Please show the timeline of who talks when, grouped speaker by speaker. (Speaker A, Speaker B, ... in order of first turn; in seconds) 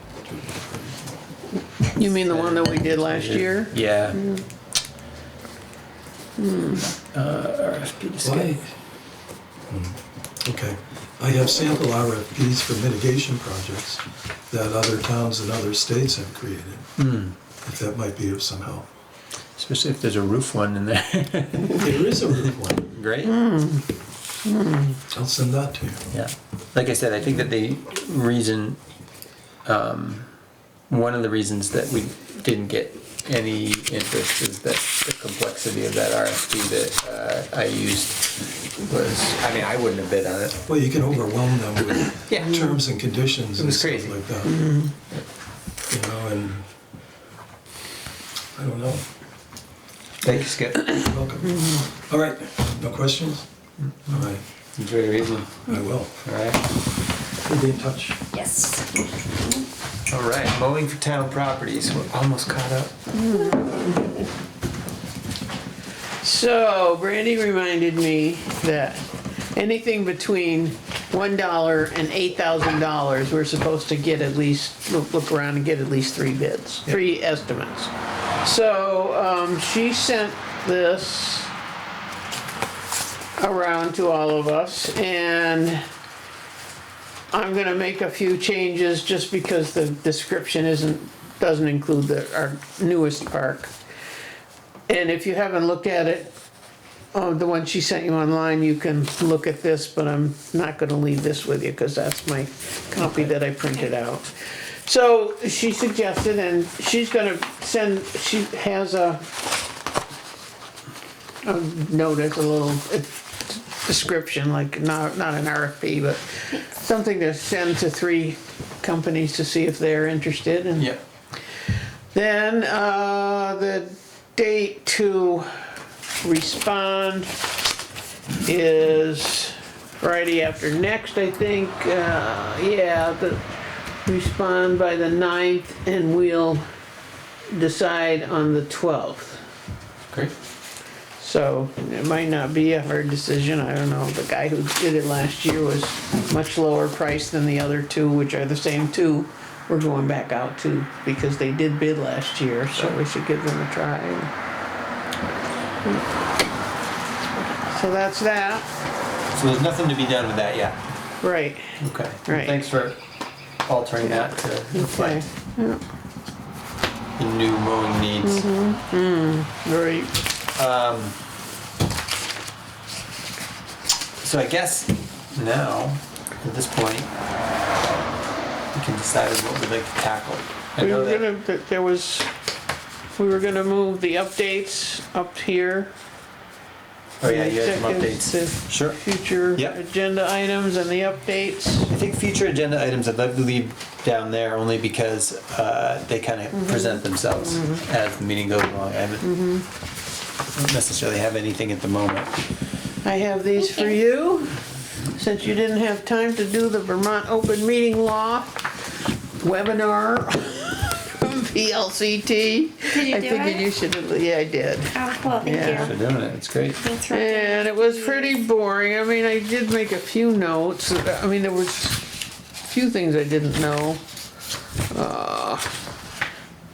Speaker A: 0.3-0.8, 8.2-8.7, 9.7-16.9, 17.6-18.9, 21.7-22.9, 25.1-26.0, 40.7-44.5, 45.9-46.6, 48.5-49.0, 50.3-53.5, 54.1-54.4, 55.6-56.2, 57.4-58.2
Speaker B: 1.9-4.4, 6.4-6.8, 23.2-23.9, 24.4-25.0, 44.5-44.9, 63.1-64.1, 66.2-81.5, 83.4-85.8, 87.3-93.7, 94.9-96.3, 97.1-104.3, 104.8-109.2, 111.4-120.9, 122.1-125.5, 126.2-127.3, 128.4-133.4, 134.1-136.6, 137.6-139.4, 141.2-154.3, 157.6-158.7, 161.2-162.6, 164.0-165.8, 168.2-170.1, 180.8-182.3, 183.2-185.9, 187.2-191.9, 196.5-197.8, 199.2-199.7, 203.0-204.6, 205.2-208.7, 209.4-215.9, 217.1-222.1, 222.7-224.0, 224.9-225.8
Speaker C: 2.3-4.2, 7.1-8.6, 17.0-17.4, 19.6-21.9, 22.8-23.4, 26.1-28.8, 29.6-30.3, 30.9-40.7, 42.3-42.7, 43.6-44.2, 50.2-51.0, 53.8-56.6, 60.1-62.9, 103.0-103.3, 159.3-160.8, 161.8-163.0, 163.7-165.2, 167.2-168.5, 170.6-171.2, 174.2-177.1, 178.7-181.3, 187.2-189.0, 189.5-189.8, 191.9-199.3, 200.5-202.3, 215.4-216.8
Speaker D: 58.3-58.9, 212.9-213.7, 214.9-215.9, 216.8-218.4